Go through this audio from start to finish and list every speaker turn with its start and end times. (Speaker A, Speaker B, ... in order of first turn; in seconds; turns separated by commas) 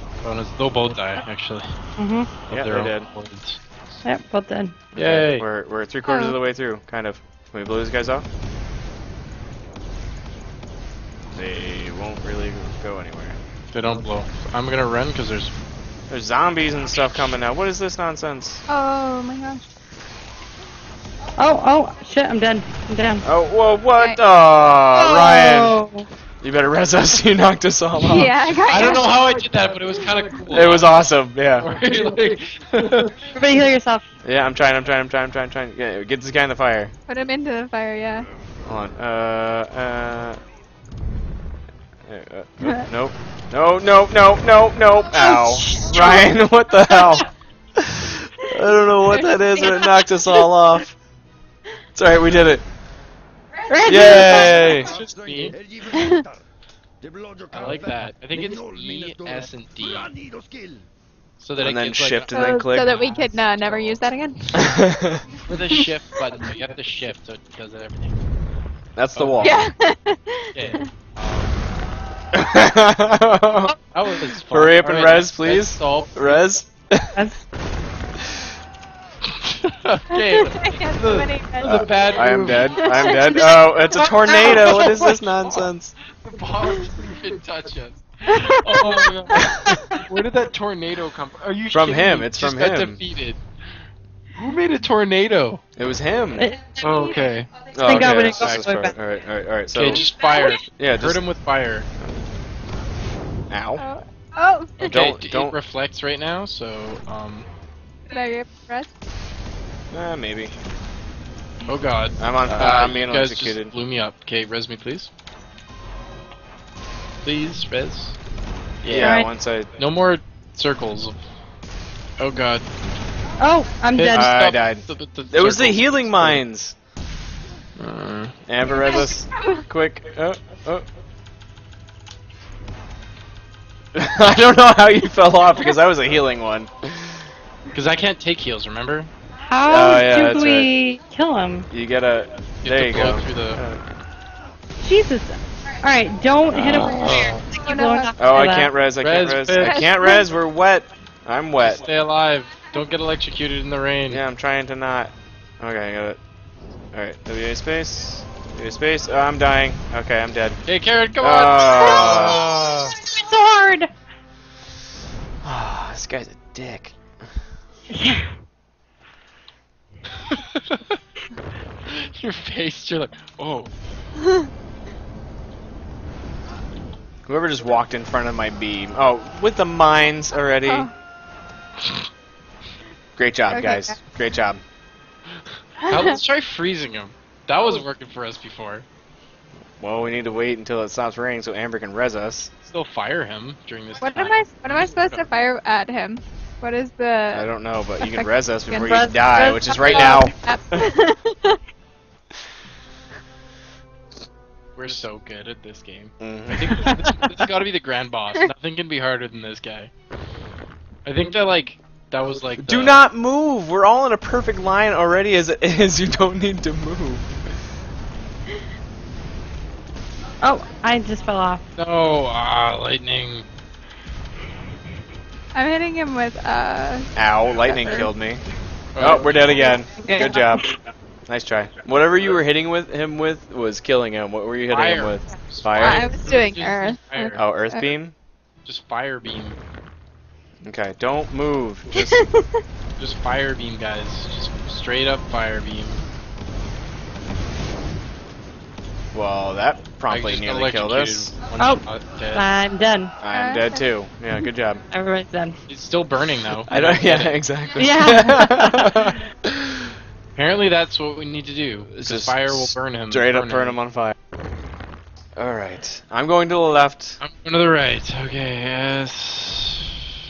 Speaker A: 0.2-1.7, Speaker B: 2.0-2.3, Speaker A: 2.5-3.6, Speaker C: 2.5-3.1, Speaker B: 4.0-4.8, Speaker C: 4.9-8.2, Speaker A: 5.0-5.4, Speaker D: 6.0-6.3, Speaker C: 11.3-13.4, Speaker A: 13.7-15.5, Speaker C: 16.1-18.6, Speaker D: 18.7-19.6, Speaker B: 21.4-23.2, Speaker C: 23.2-25.8, Speaker B: 24.9-26.1, Speaker C: 26.4-28.6, Speaker D: 28.0-29.4, Speaker A: 28.7-33.3, Speaker C: 30.5-31.7, Speaker B: 33.3-34.0, Speaker C: 34.2-36.9, Speaker D: 37.1-38.3, Speaker C: 38.6-40.4, Speaker C: 42.0-47.2, Speaker B: 45.1-46.1, Speaker C: 47.8-51.0, Speaker D: 49.0-50.4, Speaker C: 52.0-52.6, Speaker D: 53.7-54.7, Speaker C: 53.9-54.9, Speaker A: 53.9-55.5, Speaker D: 55.9-56.2, Speaker A: 57.5-60.1, Speaker A: 61.4-64.0, Speaker C: 61.6-62.9, Speaker D: 62.3-64.7, Speaker C: 64.5-65.2, Speaker A: 65.5-68.2, Speaker C: 69.0-69.6, Speaker A: 69.1-69.7, Speaker D: 69.4-70.8, Speaker A: 70.5-71.6, Speaker C: 72.3-73.7, Speaker A: 73.9-76.5, Speaker C: 74.5-77.2, Speaker B: 77.1-77.4, Speaker A: 79.2-83.2, Speaker D: 80.1-81.8, Speaker C: 81.6-85.9, Speaker D: 82.7-84.7, Speaker B: 83.4-85.2, Speaker A: 86.2-93.4, Speaker D: 88.3-89.7, Speaker C: 91.7-93.0, Speaker A: 94.3-95.6, Speaker C: 95.8-96.5, Speaker B: 96.4-96.8, Speaker A: 96.8-98.8, Speaker D: 96.9-97.2, Speaker C: 97.7-100.1, Speaker B: 97.8-98.9, Speaker A: 99.7-101.9, Speaker C: 100.8-101.2, Speaker C: 103.5-103.8, Speaker D: 103.8-104.9, Speaker C: 104.8-105.5, Speaker A: 104.8-107.5, Speaker D: 108.1-108.9, Speaker C: 109.9-110.5, Speaker A: 111.7-115.1, Speaker C: 112.2-113.7, Speaker A: 117.2-118.2, Speaker C: 118.8-119.7, Speaker A: 118.8-119.2, Speaker B: 118.9-119.3, Speaker A: 119.8-121.2, Speaker A: 122.2-122.7, Speaker B: 123.4-124.3, Speaker A: 123.9-126.4, Speaker C: 124.1-126.8, Speaker A: 127.8-128.3, Speaker C: 128.5-130.8, Speaker D: 128.7-129.6, Speaker C: 133.9-137.2, Speaker A: 137.7-139.1, Speaker B: 139.4-141.7, Speaker C: 139.6-140.7, Speaker C: 141.7-143.8, Speaker A: 142.6-143.6, Speaker B: 144.8-148.7, Speaker A: 146.5-147.4, Speaker C: 146.7-146.9, Speaker D: 146.9-148.3, Speaker C: 148.2-151.8, Speaker A: 149.0-149.9, Speaker D: 149.6-150.3, Speaker A: 151.6-154.2, Speaker C: 154.1-156.2, Speaker C: 156.9-160.6, Speaker A: 160.6-162.9, Speaker C: 161.2-162.5, Speaker B: 162.1-163.9, Speaker C: 165.4-166.9, Speaker B: 167.9-168.3, Speaker A: 170.2-171.0, Speaker A: 171.8-173.7, Speaker D: 174.2-174.5, Speaker C: 177.2-180.9, Speaker D: 180.6-180.9, Speaker C: 183.2-184.6, Speaker D: 183.5-184.0, Speaker D: 185.8-186.2, Speaker A: 185.9-188.8, Speaker C: 189.8-192.5, Speaker A: 192.6-195.3, Speaker D: 194.0-201.6, Speaker C: 197.3-200.3, Speaker B: 198.7-199.6, Speaker A: 199.8-200.3, Speaker A: 204.8-209.9, Speaker C: 206.2-206.7, Speaker B: 206.8-207.1, Speaker A: 211.0-213.0, Speaker C: 212.6-217.3, Speaker B: 220.4-221.6, Speaker A: 221.8-223.5, Speaker D: 225.5-227.1, Speaker C: 227.2-228.4, Speaker D: 227.6-228.1, Speaker A: 228.9-229.8, Speaker C: 229.0-230.7, Speaker D: 230.0-230.4, Speaker B: 230.1-230.7, Speaker C: 231.3-236.1, Speaker A: 234.7-237.4, Speaker D: 235.8-237.8, Speaker C: 237.3-238.1, Speaker A: 238.6-239.6, Speaker C: 240.6-242.3, Speaker D: 241.9-242.6, Speaker A: 243.0-246.0, Speaker C: 249.1-251.4, Speaker A: 250.1-252.5, Speaker B: 252.3-253.2, Speaker C: 253.2-254.8, Speaker D: 253.3-253.8, Speaker B: 254.9-255.6, Speaker A: 255.7-257.4, Speaker C: 256.6-259.9, Speaker B: 257.8-259.1, Speaker A: 260.3-263.8, Speaker C: 261.9-264.1, Speaker C: 265.4-267.2, Speaker A: 267.2-270.0